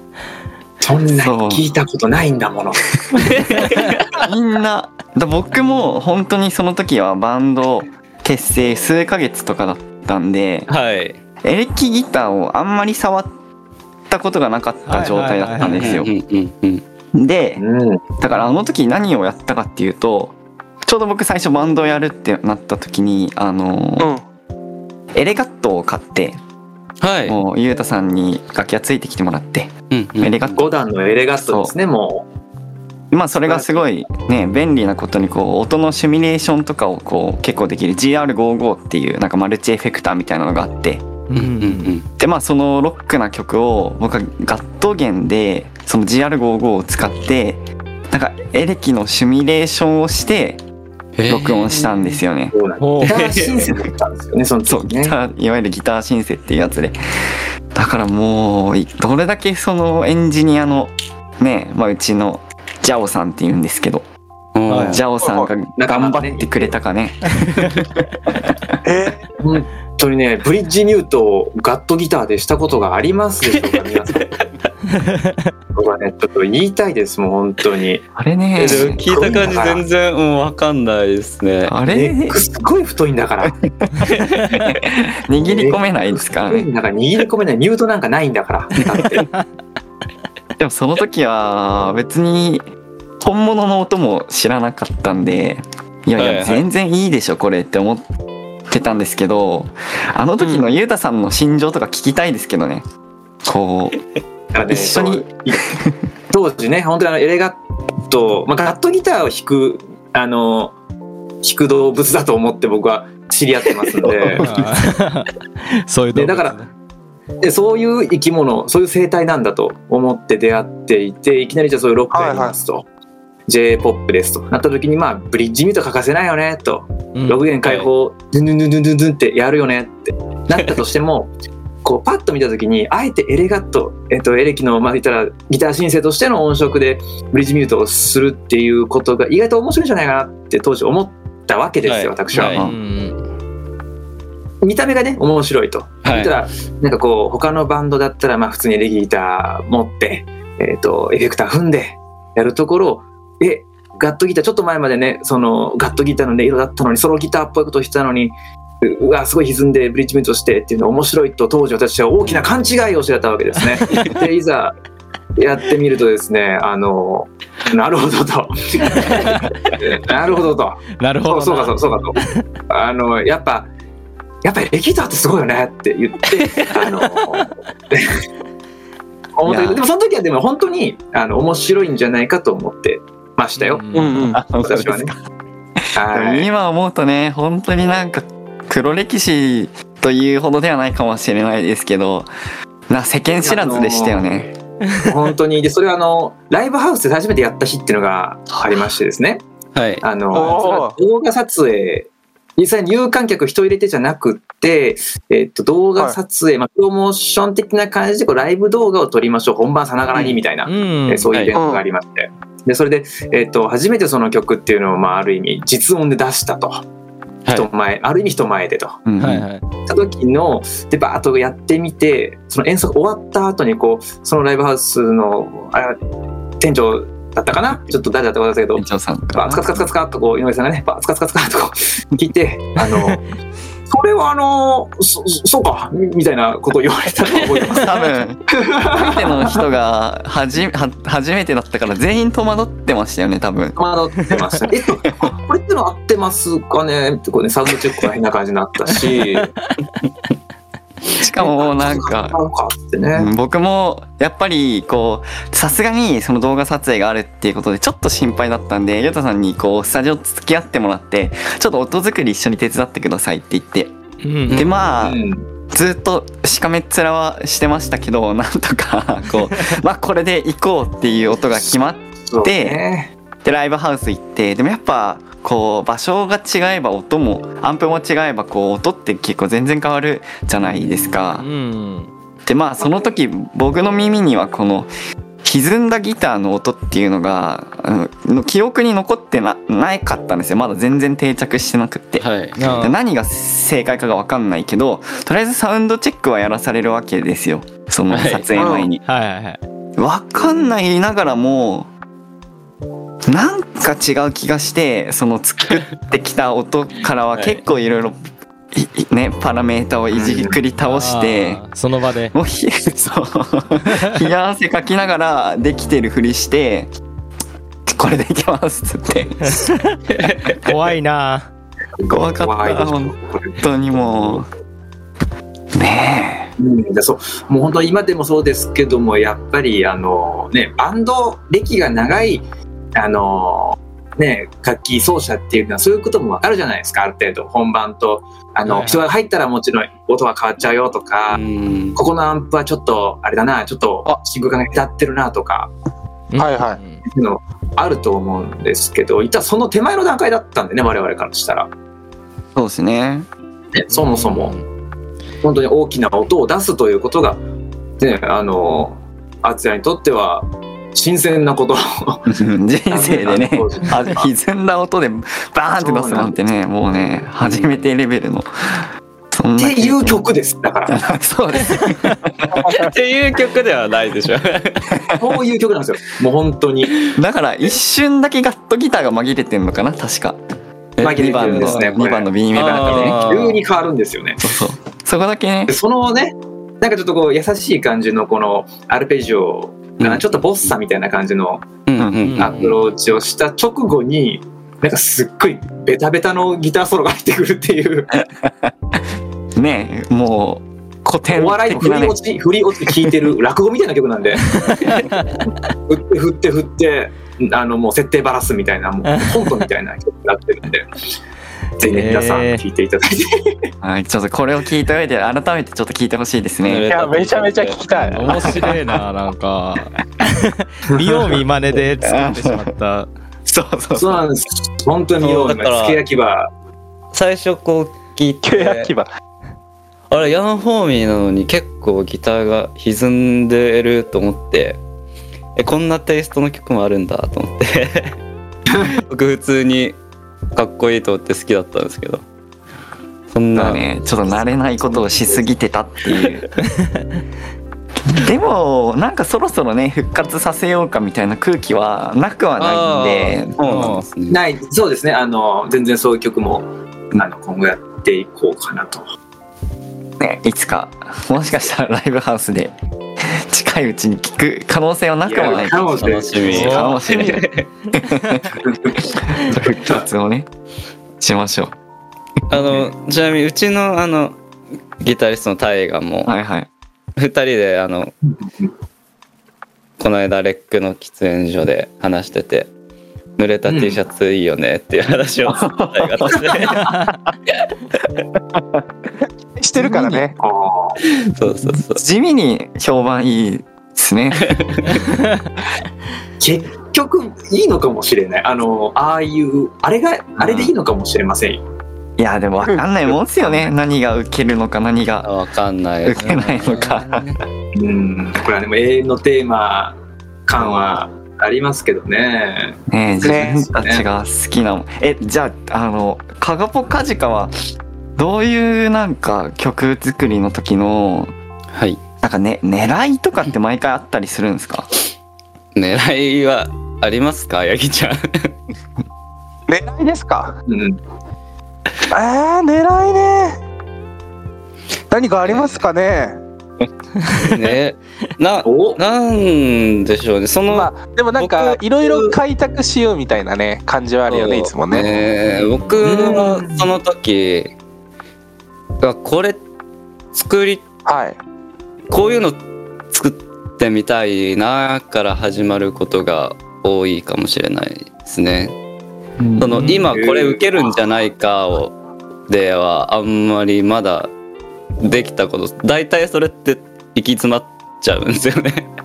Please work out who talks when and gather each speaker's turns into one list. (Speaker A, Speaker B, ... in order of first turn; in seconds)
Speaker A: 0.8-3.5, 17.6-18.0, 30.5-32.3, 33.4-33.9, 52.5-55.1, 65.7-66.8, 69.4-74.3, 75.8-78.1, 78.6-79.8, 81.9-83.5, 85.4-89.3, 104.5-105.6, 106.3-110.8, 111.4-114.7, 116.1-116.6, 117.4-122.9, 123.5-131.3, 131.8-142.6, 144.6-164.8, 165.4-173.7, 174.4-178.1, 179.4-183.9, 184.6-185.1, 185.9-186.5, 193.4-194.2, 195.0-199.4, 200.0-216.8, 217.5-219.0, 219.9-226.0, 226.6-233.2, 233.9-238.0, 238.6-239.6, 243.8-249.5, 251.4-253.3, 264.9-265.4, 272.3-273.1, 282.8-283.1, 310.1-310.6, 322.0-324.4, 326.6-332.4, 332.9-341.4, 341.9-345.7, 347.1-351.7, 353.8-354.6, 355.4-357.4, 358.0-362.3, 362.9-364.3, 365.8-366.4, 369.6-371.1, 375.2-377.1, 381.0-384.4, 385.7-391.7, 392.4-398.2, 401.3-405.1, 405.9-410.9, 411.8-413.7, 421.0-421.3, 423.9-426.5, 444.8-445.5, 454.3-459.1, 465.3-466.7, 468.6-470.1, 478.3-478.7, 483.7-484.0, 486.5-486.9, 490.4-491.0, 496.4-501.6, 503.0-503.7, 507.8-514.1, 530.7-531.0, 538.6-539.0, 546.0-546.9, 559.4-561.0
Speaker B: 1.2-1.6, 4.2-10.7, 11.4-13.3, 14.1-16.1, 17.1-17.6, 18.2-24.1, 25.1-26.4, 27.3-30.7, 31.4-31.7, 33.1-41.0, 42.2-50.6, 51.3-52.5, 54.7-64.0, 64.9-67.4, 78.2-79.5, 81.7-82.4, 83.4-86.7, 90.6-92.7, 93.2-98.0, 98.7-102.8, 103.4-104.0, 104.7-106.0, 142.5-142.8, 179.5-179.8, 184.3-185.2, 185.9-192.3, 192.9-194.6, 198.6-198.9, 219.1-219.5, 228.8-229.9, 237.7-243.8, 251.2-252.4, 253.2-263.9, 264.5-265.2, 265.7-272.8, 273.4-281.5, 282.5-284.9, 285.4-299.0, 300.0-301.9, 303.3-308.2, 308.7-311.6, 312.3-316.9, 317.9-319.7, 322.1-324.5, 325.8-326.5, 352.6-353.3, 362.3-370.2, 370.9-372.7, 374.9-375.2, 377.1-380.4, 381.0-383.2, 384.4-385.8, 392.0-392.4, 398.4-398.7, 399.6-402.2, 413.8-416.9, 422.0-422.7, 423.5-424.2, 443.6-446.5, 448.1-453.6, 460.2-468.6, 469.2-470.5, 471.2-471.8, 476.3-476.7, 485.5-486.6, 488.6-488.8, 489.8-490.2, 491.7-494.6, 500.4-500.7, 502.2-505.3, 506.0-507.3, 510.6-510.9, 512.9-517.5, 518.2-521.3, 522.2-524.9
Speaker C: 3.2-4.0, 10.7-11.2, 15.7-16.8, 27.0-27.4, 29.9-30.5, 41.4-42.1, 51.2-51.9, 53.0-53.6, 64.5-65.0, 74.2-74.4, 78.6-81.8, 96.2-96.7, 127.6-127.9, 141.8-142.6, 146.0-146.3, 199.7-200.5, 210.1-210.4, 211.3-211.6, 292.2-292.6, 298.1-298.5, 307.3-307.6, 320.1-320.7, 341.3-342.0, 367.4-367.9, 372.7-374.9, 381.0-381.9, 382.5-383.6, 391.9-392.8, 416.6-418.6, 425.2-426.0, 427.1-428.9, 430.1-434.8, 435.6-438.1, 439.1-440.0, 440.5-442.2, 443.3-443.9, 452.6-454.4, 465.4-467.7, 472.5-474.4, 475.0-476.3, 477.2-478.1, 480.0-482.7, 483.4-486.9, 491.1-492.0, 494.4-495.0, 505.2-507.4, 521.7-522.0, 525.8-528.5, 535.4-535.9, 537.3-542.2, 544.3-547.7, 549.0-549.6, 550.3-550.8, 552.1-552.6, 553.1-558.8, 559.6-561.9, 562.5-564.3, 565.0-568.9
Speaker D: 14.9-15.9, 41.3-41.9, 52.8-53.1, 64.7-65.0, 75.0-75.3, 114.3-115.3, 115.9-116.7, 127.1-127.5, 142.6-143.2, 163.8-164.2, 168.9-169.5, 171.0-172.4, 176.3-177.2, 183.6-184.3, 210.7-211.3, 219.2-219.6, 264.2-264.6, 280.8-282.1, 292.6-293.0, 299.0-299.6, 310.8-312.3, 319.4-320.0, 320.6-321.5, 338.7-339.1, 346.3-347.0, 353.9-354.6, 392.2-392.6, 404.6-405.3, 409.1-409.6, 411.8-412.6, 418.1-423.1, 453.6-454.1, 466.5-467.0, 506.2-506.5
Speaker E: 65.2-65.5, 68.8-69.3, 100.4-100.7, 122.1-122.6, 183.9-184.4, 200.3-201.0, 211.6-211.8, 298.6-298.9, 346.4-346.8, 416.9-418.6, 428.4-429.1, 489.6-490.4, 513.2-513.6, 529.7-530.6, 532.1-533.6, 535.1-536.4, 540.7-545.1, 551.0-551.4